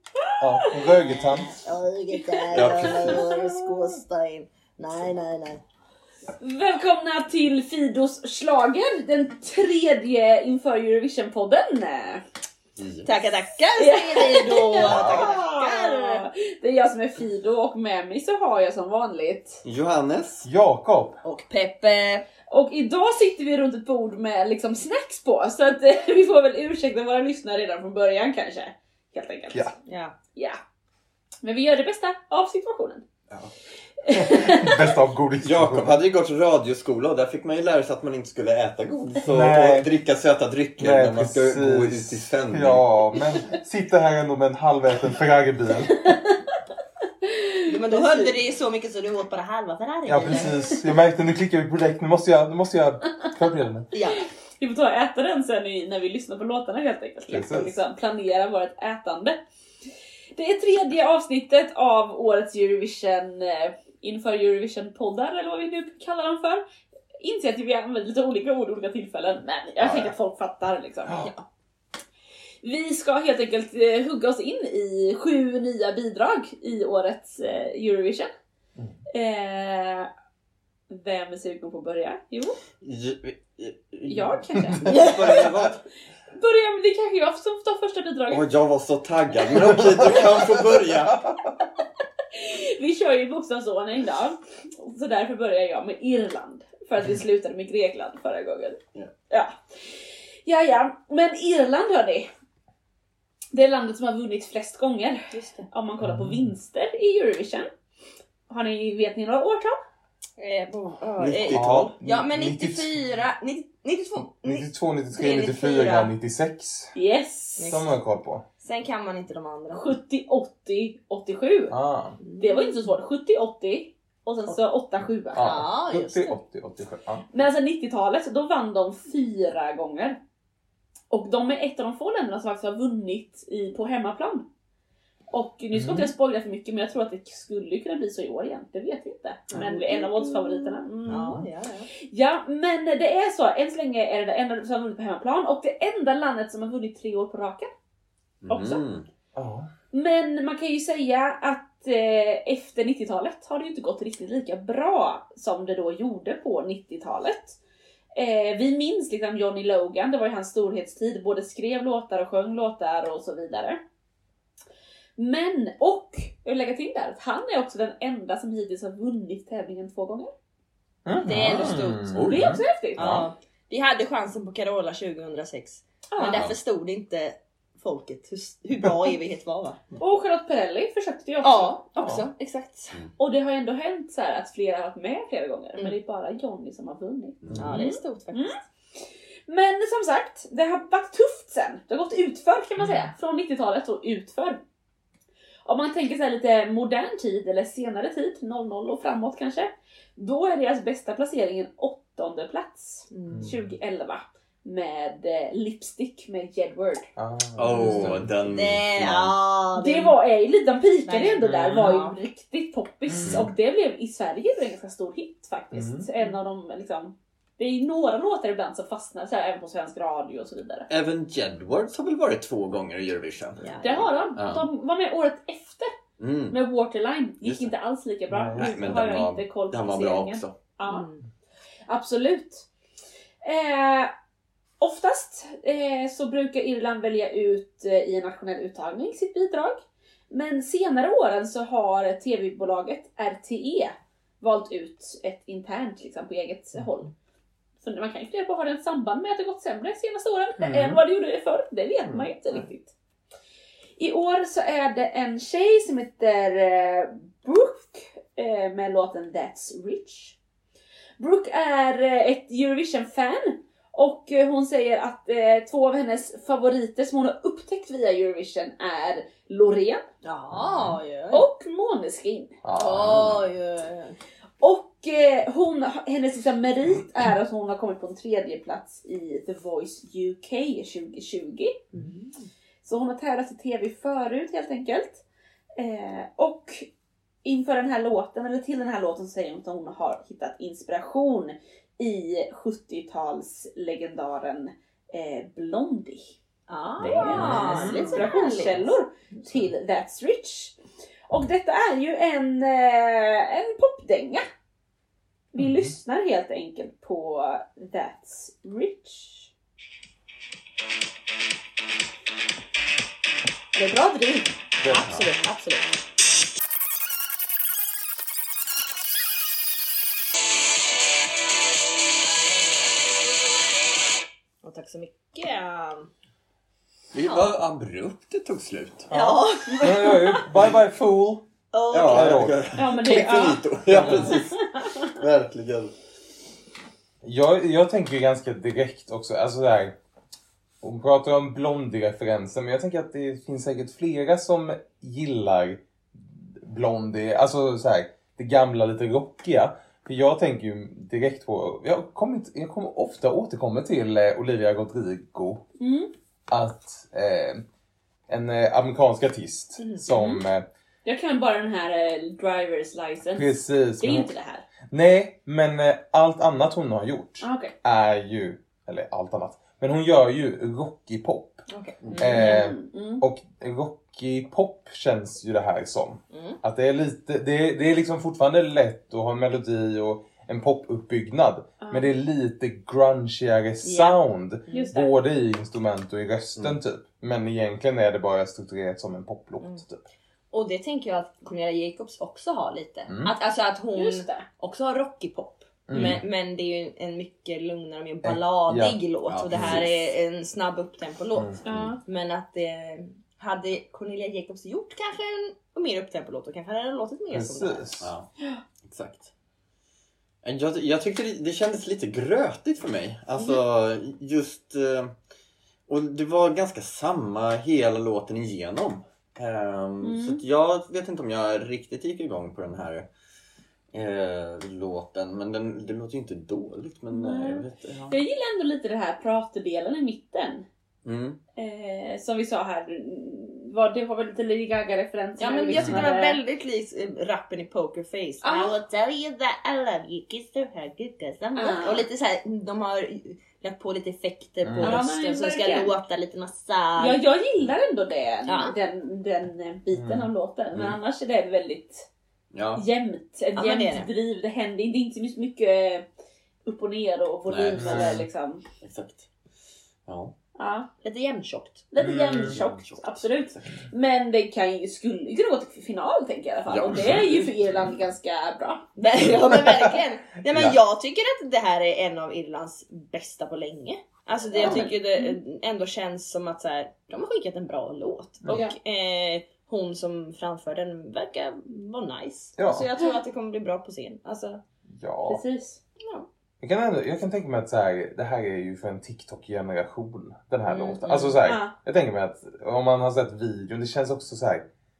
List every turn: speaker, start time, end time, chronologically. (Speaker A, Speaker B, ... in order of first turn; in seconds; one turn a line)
Speaker A: 0.4-1.6
Speaker B: 1.5-5.6
Speaker C: 2.1-3.5
Speaker D: 2.5-3.3
Speaker C: 6.4-12.2
Speaker D: 12.8-13.1
Speaker B: 13.1-16.3
Speaker C: 13.8-19.6
Speaker A: 14.8-15.3
Speaker D: 19.6-20.5
Speaker A: 20.4-21.2
Speaker B: 21.2-22.3
Speaker C: 22.5-29.7
Speaker B: 29.9-30.1
Speaker C: 31.4-33.0
Speaker C: 34.0-34.9
Speaker A: 34.1-36.0
Speaker D: 35.4-42.9
Speaker A: 39.3-39.9
Speaker A: 40.8-46.1
Speaker C: 46.1-46.4
Speaker C: 47.2-48.3
Speaker B: 47.7-50.8
Speaker A: 50.1-53.9
Speaker B: 53.9-54.2
Speaker C: 54.6-59.4
Speaker A: 57.3-57.8
Speaker C: 60.4-66.6
Speaker C: 67.2-71.2
Speaker C: 72.6-78.3
Speaker C: 79.1-80.1
Speaker C: 80.9-82.6
Speaker D: 82.8-85.8
Speaker C: 84.1-85.3
Speaker B: 84.9-85.4
Speaker C: 86.3-88.5
Speaker D: 88.3-91.2
Speaker A: 89.9-91.3
Speaker C: 92.3-98.8
Speaker C: 99.3-102.3
Speaker C: 103.5-107.7
Speaker B: 105.3-105.7
Speaker A: 106.0-106.5
Speaker C: 108.5-109.8
Speaker B: 110.4-116.1
Speaker D: 111.2-111.9
Speaker A: 111.5-113.0
Speaker A: 114.2-117.0
Speaker C: 117.0-117.8
Speaker B: 117.6-118.0
Speaker A: 117.7-118.5
Speaker B: 118.6-119.8
Speaker C: 119.7-121.8
Speaker A: 121.7-122.2
Speaker B: 122.2-122.8
Speaker C: 122.4-125.7
Speaker A: 125.3-127.3
Speaker B: 125.4-126.3
Speaker C: 127.3-130.2
Speaker C: 131.1-134.5
Speaker C: 135.3-141.4
Speaker A: 135.7-136.1
Speaker B: 139.6-141.9
Speaker A: 141.1-141.4
Speaker C: 142.1-147.7
Speaker D: 148.4-149.1
Speaker C: 148.5-148.8
Speaker A: 149.3-149.7
Speaker C: 149.9-157.6
Speaker C: 158.2-163.8
Speaker C: 165.2-170.3
Speaker A: 171.1-173.2
Speaker B: 171.2-172.2
Speaker D: 171.3-172.6
Speaker C: 172.2-173.2
Speaker B: 173.0-179.8
Speaker C: 176.1-176.5
Speaker D: 176.2-176.6
Speaker C: 180.0-181.8
Speaker B: 181.4-183.0
Speaker A: 182.0-182.3
Speaker C: 183.2-188.6
Speaker D: 187.4-187.7
Speaker B: 187.5-188.5
Speaker C: 189.5-194.6
Speaker A: 192.8-193.1
Speaker C: 195.7-207.1
Speaker B: 203.1-203.5
Speaker A: 203.3-203.7
Speaker A: 207.2-208.3
Speaker D: 207.6-209.4
Speaker B: 208.4-210.2
Speaker C: 209.8-220.9
Speaker B: 211.1-212.2
Speaker A: 211.4-211.9
Speaker A: 213.1-213.5
Speaker A: 215.7-216.1
Speaker D: 220.9-223.7
Speaker B: 223.6-224.1
Speaker C: 223.8-225.9
Speaker D: 224.3-224.7
Speaker D: 226.2-226.6
Speaker C: 226.5-231.1
Speaker D: 227.4-227.7
Speaker A: 228.3-228.9
Speaker D: 228.6-230.6
Speaker B: 230.9-231.2
Speaker C: 231.9-232.7
Speaker C: 233.4-234.1
Speaker C: 234.8-247.1
Speaker C: 247.8-252.9
Speaker A: 250.6-251.0
Speaker A: 252.1-252.6
Speaker C: 254.0-260.4
Speaker C: 261.2-270.0
Speaker B: 270.2-271.4
Speaker A: 270.5-271.0
Speaker C: 271.3-272.5
Speaker A: 272.6-273.3
Speaker B: 272.8-274.2
Speaker D: 273.0-273.4
Speaker C: 274.6-281.8
Speaker B: 281.9-282.3
Speaker C: 282.8-285.2
Speaker C: 285.8-286.9
Speaker C: 287.4-296.4
Speaker B: 296.7-298.9
Speaker A: 297.0-298.2
Speaker C: 297.0-300.8
Speaker C: 301.3-304.4
Speaker C: 305.5-309.5
Speaker A: 305.6-305.9
Speaker C: 313.8-314.5
Speaker A: 314.8-315.2
Speaker B: 314.9-315.9
Speaker D: 314.9-315.3
Speaker B: 324.6-326.1
Speaker D: 327.1-329.1
Speaker B: 327.2-327.5
Speaker B: 329.1-330.4
Speaker A: 329.1-331.4
Speaker C: 329.7-330.2
Speaker B: 331.7-332.4
Speaker D: 331.9-335.9
Speaker A: 332.1-332.6
Speaker C: 332.8-335.0
Speaker A: 333.9-334.4
Speaker A: 337.2-339.9
Speaker A: 340.8-355.6
Speaker C: 355.8-356.1
Speaker A: 356.5-357.6
Speaker A: 358.3-360.6
Speaker B: 359.8-360.0
Speaker C: 360.1-360.4
Speaker C: 361.1-364.6
Speaker A: 363.4-364.3
Speaker A: 364.9-371.6
Speaker C: 367.4-367.7
Speaker B: 371.7-372.5
Speaker D: 372.0-372.3
Speaker A: 372.2-390.0
Speaker C: 372.2-373.2
Speaker B: 376.3-376.6
Speaker C: 381.8-382.1
Speaker B: 384.7-384.9
Speaker C: 384.7-385.1
Speaker B: 390.5-407.9
Speaker A: 393.1-393.3
Speaker C: 393.9-394.5
Speaker A: 395.9-396.2
Speaker D: 395.9-396.2
Speaker A: 398.2-399.0
Speaker D: 399.3-399.9
Speaker A: 399.5-399.8
Speaker C: 401.6-402.0
Speaker A: 407.3-408.1
Speaker D: 408.0-408.3
Speaker D: 408.9-409.3
Speaker D: 410.4-415.1
Speaker D: 415.9-423.1
Speaker C: 420.0-420.4
Speaker D: 423.9-428.2
Speaker C: 427.1-430.7
Speaker D: 431.0-431.4
Speaker C: 431.6-436.4
Speaker B: 435.4-447.2
Speaker A: 435.8-436.1
Speaker C: 438.4-438.7
Speaker C: 441.6-442.1
Speaker A: 444.6-445.0
Speaker C: 444.8-445.9
Speaker C: 447.0-452.1
Speaker B: 448.5-448.8
Speaker A: 449.9-450.3
Speaker D: 450.7-451.0
Speaker D: 452.5-452.9
Speaker C: 452.8-456.1
Speaker B: 453.6-454.1
Speaker C: 456.7-458.6
Speaker D: 457.5-458.2
Speaker A: 457.8-458.2
Speaker D: 458.8-459.3
Speaker D: 460.1-460.3
Speaker C: 460.6-460.9
Speaker B: 461.0-461.9
Speaker C: 461.9-468.9
Speaker A: 462.0-462.6
Speaker D: 462.3-463.9
Speaker D: 466.7-467.5
Speaker A: 466.9-467.2
Speaker B: 469.0-484.6
Speaker A: 469.3-469.9
Speaker A: 470.5-470.8
Speaker C: 474.5-475.4
Speaker C: 478.5-478.8
Speaker A: 482.6-482.9
Speaker A: 485.0-485.4
Speaker C: 485.3-485.8
Speaker B: 486.0-486.3
Speaker A: 486.6-494.6
Speaker B: 490.7-491.4
Speaker C: 491.4-491.7